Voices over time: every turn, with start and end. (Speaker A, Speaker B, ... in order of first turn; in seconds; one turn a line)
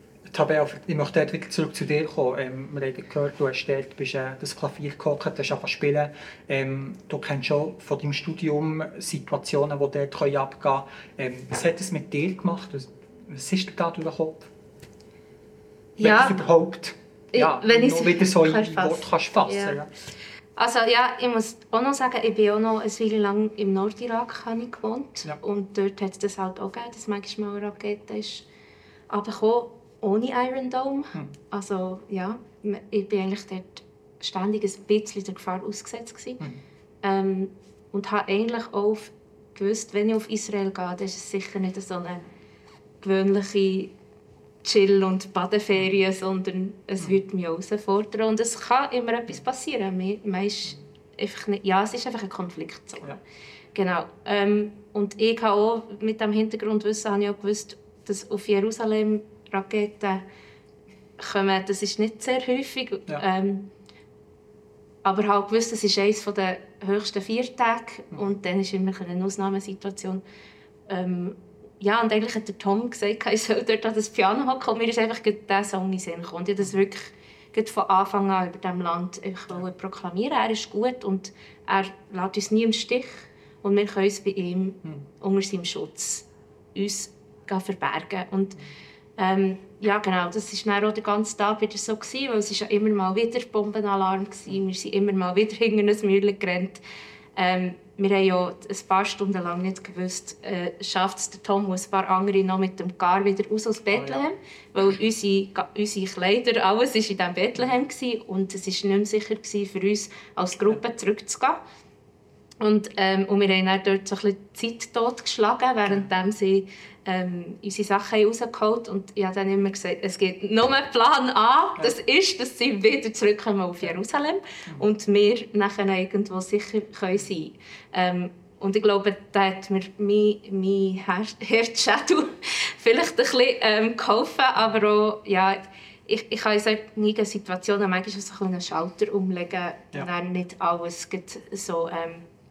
Speaker A: 0.3-14.5
Speaker B: 16.0-16.4
Speaker A: 16.0-19.9
Speaker B: 17.3-19.8
Speaker B: 20.6-28.5
Speaker B: 29.1-36.4
Speaker B: 37.0-42.2
Speaker B: 43.0-43.9
Speaker B: 44.6-53.2
Speaker B: 53.8-60.2
Speaker B: 61.2-63.7
Speaker B: 65.0-70.2
Speaker B: 70.9-88.6
Speaker B: 89.2-96.8
Speaker B: 97.4-111.6
Speaker A: 104.0-104.2
Speaker B: 112.6-142.3